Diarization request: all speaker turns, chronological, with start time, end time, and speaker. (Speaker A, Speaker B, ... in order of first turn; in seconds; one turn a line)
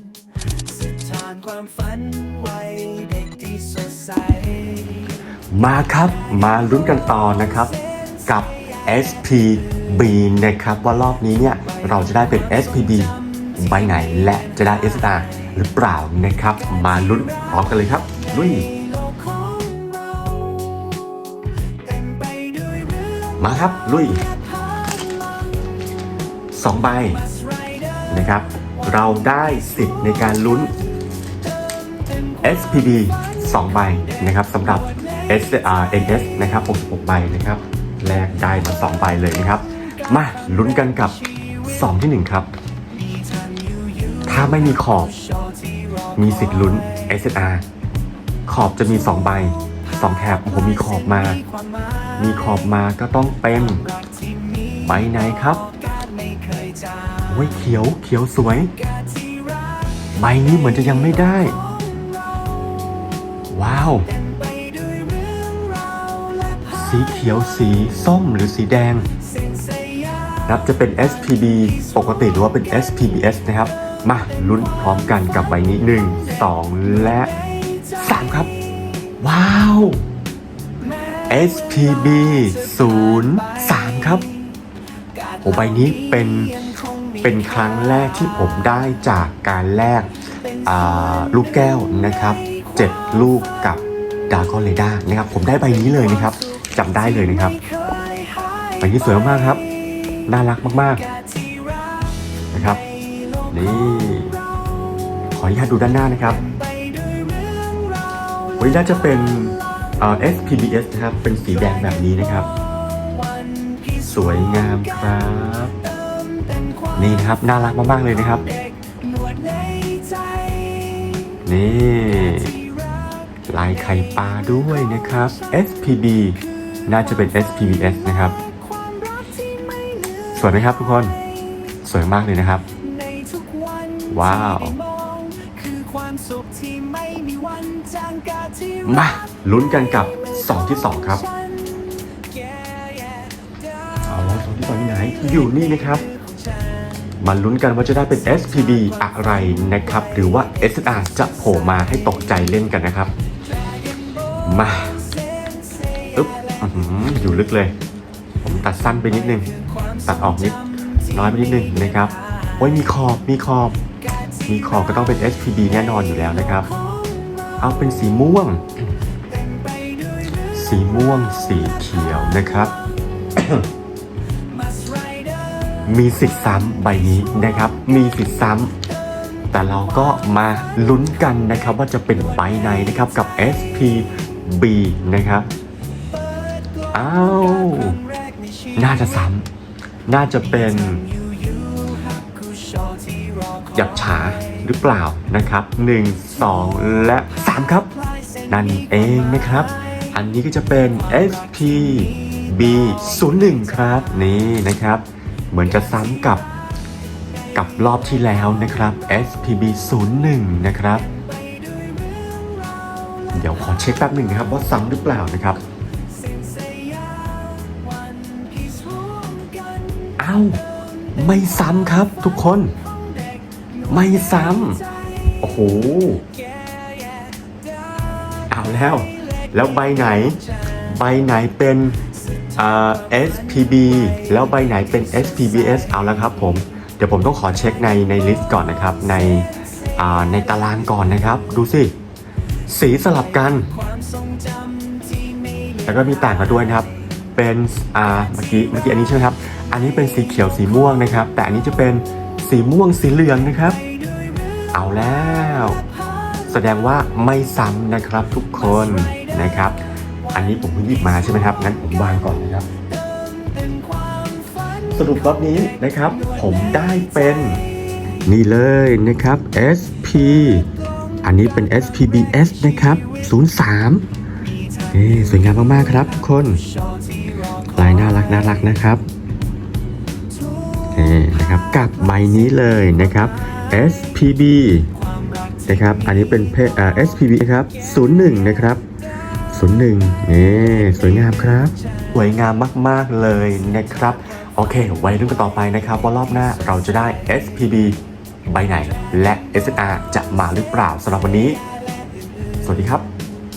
Speaker A: 0.9-4.8
Speaker B: 5.5-7.7
Speaker B: 8.2-18.7
Speaker A: 19.1-20.9
Speaker A: 22.0-23.0
Speaker B: 23.4-24.2
Speaker B: 26.5-27.2
Speaker B: 28.1-30.7
Speaker B: 32.4-42.5
Speaker B: 44.2-45.1
Speaker B: 46.1-47.6
Speaker B: 48.5-51.4
Speaker B: 52.2-53.8
Speaker B: 54.8-55.6
Speaker A: 56.0-57.1
Speaker B: 57.2-58.7
Speaker B: 60.1-61.6
Speaker B: 63.5-64.1
Speaker A: 64.4-66.6
Speaker B: 66.7-69.1
Speaker A: 69.5-70.2
Speaker B: 70.4-77.3
Speaker B: 78.0-78.5
Speaker B: 79.2-80.0
Speaker B: 81.3-84.3
Speaker B: 85.4-90.1
Speaker B: 90.6-97.6
Speaker A: 97.9-98.6
Speaker B: 98.8-99.6
Speaker B: 100.2-101.0
Speaker B: 102.5-102.8
Speaker B: 103.5-104.4
Speaker B: 105.3-106.4
Speaker A: 106.8-108.2
Speaker B: 108.6-112.5
Speaker B: 114.0-115.8
Speaker A: 116.2-116.7
Speaker B: 116.9-118.5
Speaker A: 118.9-121.2
Speaker B: 121.4-122.6
Speaker B: 123.5-128.3
Speaker A: 128.8-130.2
Speaker B: 130.3-131.2
Speaker B: 131.8-132.7
Speaker A: 133.1-134.0
Speaker B: 134.1-134.8
Speaker A: 134.8-138.8
Speaker B: 138.8-141.2
Speaker B: 144.1-146.0
Speaker B: 147.2-153.1
Speaker B: 154.4-155.1
Speaker B: 156.1-157.7
Speaker B: 158.4-159.5
Speaker B: 160.0-160.6
Speaker B: 161.1-163.8
Speaker B: 164.5-166.7
Speaker B: 167.6-168.7
Speaker B: 170.5-172.7
Speaker B: 173.3-173.7
Speaker A: 174.8-175.2
Speaker B: 175.8-178.7
Speaker B: 179.5-185.5
Speaker B: 186.9-188.0
Speaker B: 188.8-189.5
Speaker B: 190.1-191.1
Speaker A: 191.3-193.5
Speaker B: 193.7-197.9
Speaker B: 198.5-206.4
Speaker B: 207.5-211.1
Speaker A: 211.4-213.1
Speaker B: 213.3-215.6
Speaker A: 216.3-220.1
Speaker B: 220.2-220.6
Speaker B: 221.1-222.7
Speaker B: 223.9-224.8
Speaker B: 225.4-226.2
Speaker B: 228.5-232.0
Speaker B: 232.6-241.9
Speaker B: 242.7-243.7
Speaker A: 244.1-245.3
Speaker B: 245.8-253.8
Speaker B: 254.7-255.8
Speaker B: 256.5-259.8
Speaker B: 260.3-262.7
Speaker A: 263.4-264.5
Speaker B: 264.9-267.6
Speaker B: 268.2-270.7
Speaker B: 271.2-274.1
Speaker B: 274.9-276.6
Speaker B: 277.7-279.1
Speaker B: 280.9-284.9
Speaker B: 285.7-288.8
Speaker B: 289.5-301.6
Speaker B: 302.6-303.1